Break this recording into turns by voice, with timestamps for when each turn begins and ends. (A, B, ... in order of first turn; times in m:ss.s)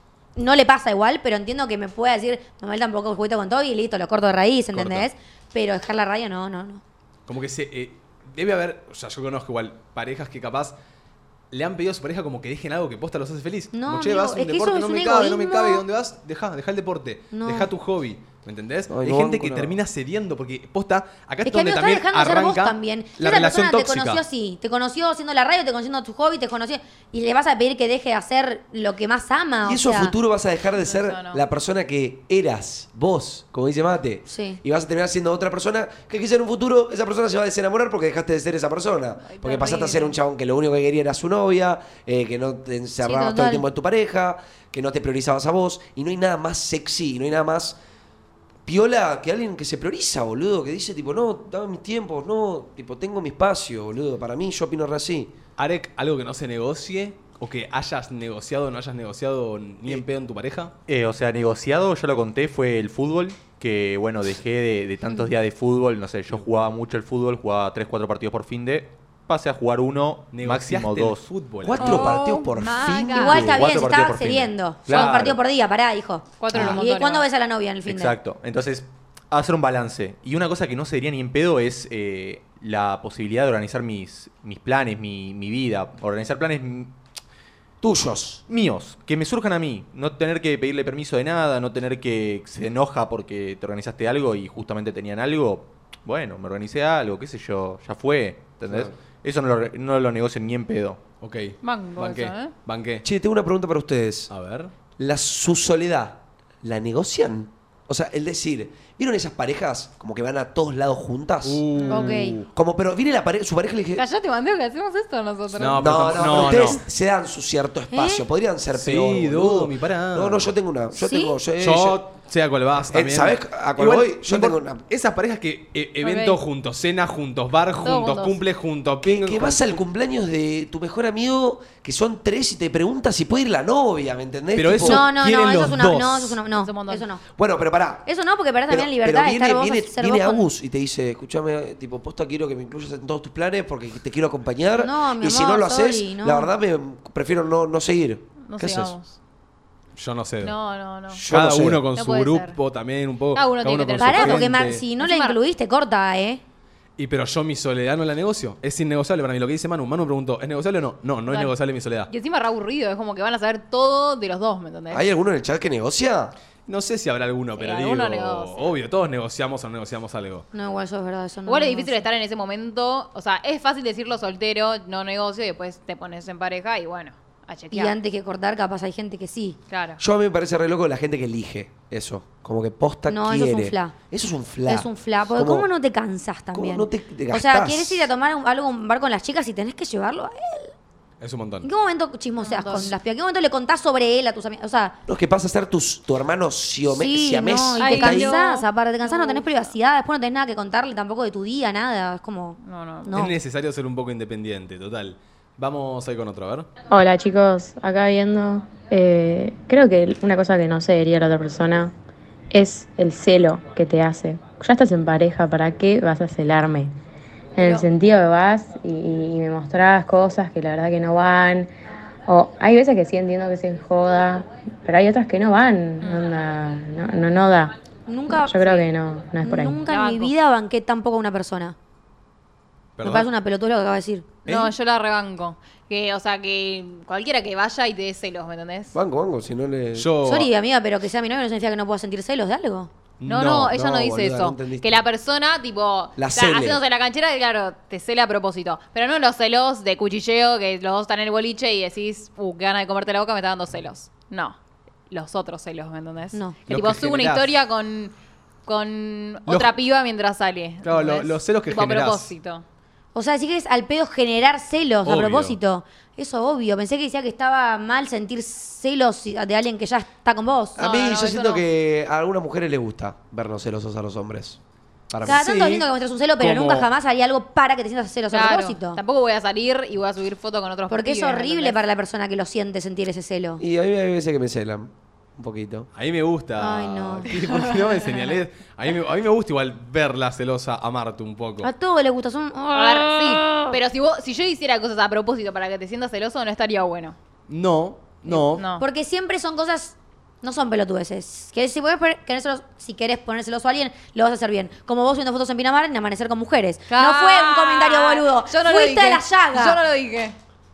0:00.4-0:06.8 A
0:04.7-0:05.1 B
0:07.3-0:10.8 B
0:11.5-0:24.2 B
0:13.7-0:15.8 A
0:17.3-0:17.7 A
0:18.9-0:19.8 C
0:21.4-0:30.1 A
0:29.6-0:47.8 C
0:30.8-0:31.4 D
0:34.3-0:34.6 A
0:39.2-0:40.2 D
0:43.0-0:43.6 A
0:48.7-0:55.3 C
0:55.6-1:00.7 B
1:00.9-1:11.3 E
1:10.3-1:12.1 B
1:11.6-1:13.7 C
1:11.8-1:13.7 D
1:13.1-1:18.2 A
1:13.4-1:15.4 E
1:16.4-1:17.3 D
1:16.5-1:16.8 E
1:17.9-1:26.9 E
1:27.8-1:28.4 C
1:28.5-1:41.0 E
1:38.7-1:39.0 C
1:41.2-1:43.0 B
1:41.6-1:42.5 D
1:43.0-1:44.3 C
1:44.3-1:44.7 B
1:45.0-1:51.6 C
1:51.4-1:52.5 B
1:51.8-1:52.2 D
1:51.9-1:52.4 A
1:52.5-1:54.0 C
1:54.0-1:56.7 D
1:55.6-1:56.8 B
1:55.8-2:02.0 C
1:57.9-1:58.2 A
1:58.8-2:00.5 B
2:01.0-2:01.4 A
2:01.6-2:09.7 B
2:02.9-2:04.8 C
2:06.0-2:06.4 D
2:07.8-2:08.4 D
2:09.0-2:15.0 C
2:14.6-2:16.4 B
2:14.8-2:17.2 A
2:16.6-2:17.1 D
2:17.4-2:18.1 C
2:18.1-2:20.5 A
2:18.7-2:29.0 C
2:24.8-2:26.5 A
2:28.5-2:29.2 D
2:30.0-2:30.6 B
2:30.4-2:31.2 D
2:31.1-2:31.8 C
2:31.3-2:34.8 B
2:32.0-2:32.6 D
2:33.4-2:35.4 D
2:34.0-2:36.4 A
2:37.0-2:42.1 B
2:41.3-2:41.5 D
2:42.1-2:45.1 D
2:44.9-2:46.3 C
2:46.7-2:50.5 B
2:47.6-2:48.7 D
2:50.5-2:52.0 A
2:51.5-2:58.0 D
2:57.7-2:59.6 A
2:59.7-3:00.0 D
3:00.0-3:05.7 C
3:03.1-3:04.0 A
3:04.7-3:10.7 A
3:06.5-3:08.1 C
3:11.2-3:11.7 B
3:11.6-3:15.0 A
3:12.4-3:13.0 D
3:15.1-3:18.4 C
3:16.9-3:23.4 A
3:17.8-3:19.7 D
3:22.6-3:23.1 D
3:23.1-3:26.7 B
3:26.9-3:31.9 F
3:32.5-3:36.9 F
3:37.6-3:41.7 F
3:42.3-3:47.7 F
3:48.1-3:48.9 A
3:48.3-3:49.8 F
3:49.4-3:51.8 A
3:49.8-3:50.3 D
3:53.0-3:53.3 B
3:53.0-3:54.3 A
3:54.5-3:54.7 B
3:54.5-3:59.0 D
3:58.9-4:00.1 C
4:00.0-4:00.5 B
4:00.2-4:02.9 A
4:03.2-4:03.8 B
4:03.3-4:14.6 D
4:03.7-4:05.0 C
4:06.2-4:06.8 C
4:15.1-4:18.1 D
4:16.7-4:17.5 B
4:18.7-4:22.6 D
4:19.5-4:19.7 B
4:20.8-4:22.3 B
4:23.1-4:30.8 A
4:25.0-4:25.6 B
4:30.8-4:34.6 C
4:30.8-4:31.6 D
4:35.1-4:35.5 C
4:35.2-4:35.8 B
4:35.2-4:39.0 A
4:36.4-4:36.9 B
4:38.3-4:41.8 D
4:40.9-4:43.6 A
4:43.6-4:45.9 C
4:46.0-4:51.7 B
4:46.6-4:47.3 A
4:51.6-4:53.8 A
4:52.7-4:57.2 D
4:57.5-4:58.6 B
4:58.3-5:09.8 A
4:58.6-4:58.8 D
5:06.9-5:10.4 D